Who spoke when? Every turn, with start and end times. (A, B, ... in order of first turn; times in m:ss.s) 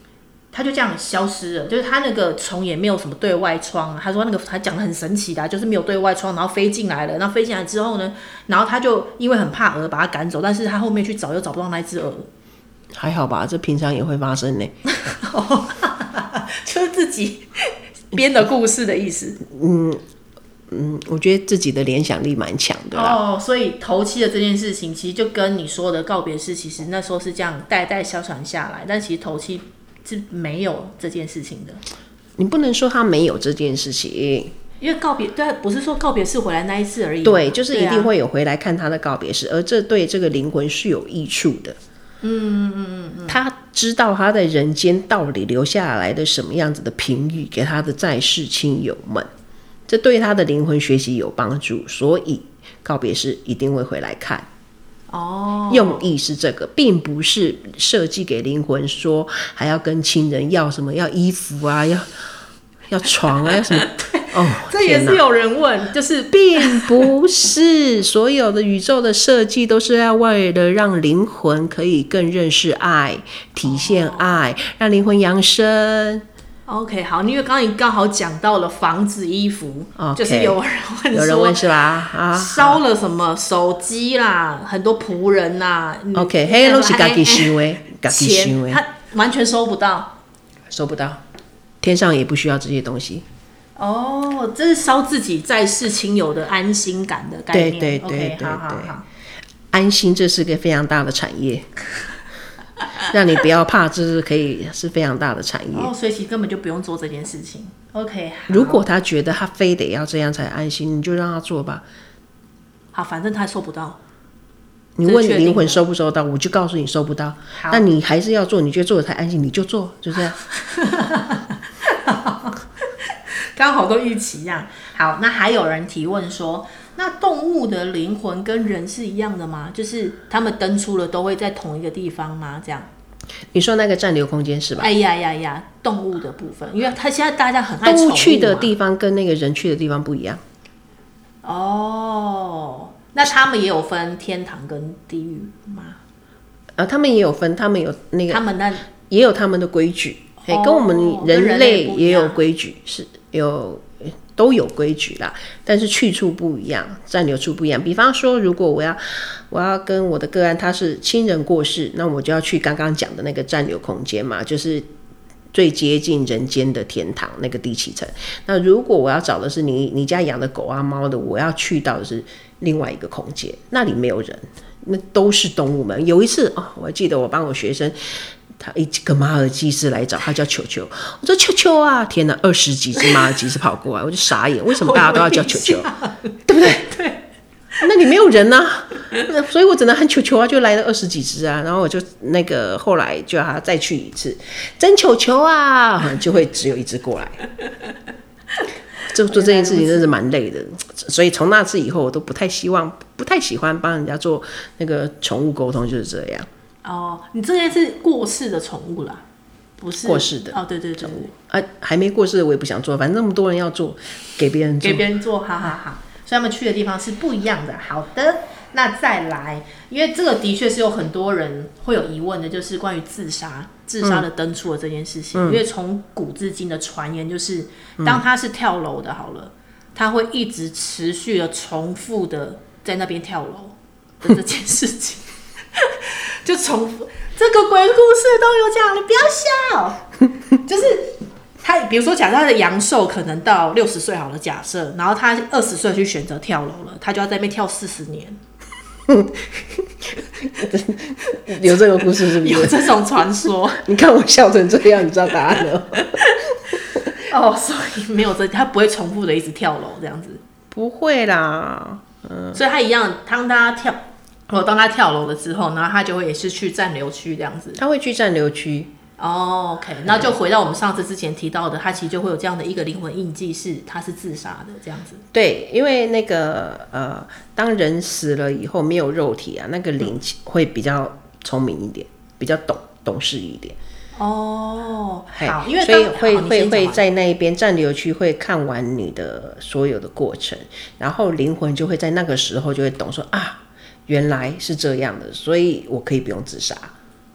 0:00.5-0:12.3 A
0:13.0-0:14.8 B
0:15.0-0:19.4 A
0:19.4-0:20.0 B
0:20.7-0:23.2 B
0:22.9-0:31.8 A
0:32.4-0:34.5 B
0:34.8-0:38.1 A
0:37.2-0:41.8 B
0:42.2-0:43.4 A
0:43.3-0:49.3 B
0:49.9-0:54.5 B
0:55.1-0:56.0 A
0:55.7-1:02.1 B
1:02.9-1:05.2 B
1:03.5-1:07.1 A
1:06.3-1:16.2 B
1:13.6-1:14.4 A
1:16.7-1:30.1 A
1:20.0-1:20.6 B
1:21.1-1:22.8 B
1:26.2-1:28.8 B
1:30.7-1:31.2 B
1:31.8-1:33.2 B
1:33.8-1:39.0 A
1:37.5-1:38.9 B
1:39.7-1:41.7 B
1:43.1-1:45.9 B
1:45.7-1:48.8 A
1:48.5-1:51.8 B
1:52.9-1:54.0 A
1:55.0-2:00.4 B
1:55.0-1:55.8 A
1:57.6-1:57.9 A
2:00.5-2:02.6 A
2:03.6-2:12.9 A
2:13.5-2:14.9 B
2:14.8-2:18.7 A
2:17.8-2:20.4 B
2:21.4-2:26.0 A
2:26.8-2:44.9 B
2:28.3-2:28.9 A
2:30.4-2:32.4 A
2:45.5-3:05.9 B
3:04.7-3:07.2 A
3:06.5-3:06.9 B
3:07.8-3:17.4 B
3:19.1-3:26.5 B
3:19.3-3:20.1 A
3:26.8-3:29.2 A
3:29.8-3:31.3 A
3:30.0-3:35.0 B
3:34.8-4:00.0 A
3:45.4-3:45.6 B
4:00.6-4:08.4 A
4:09.1-4:13.1 B
4:12.0-4:13.8 A
4:13.7-4:16.3 B
4:17.2-4:20.4 A
4:20.7-4:22.6 B
4:22.5-4:27.8 A
4:27.8-4:28.9 B
4:29.2-4:35.2 A
4:30.1-4:30.3 B
4:35.3-4:43.8 B
4:44.2-4:47.0 A
4:45.3-4:56.9 B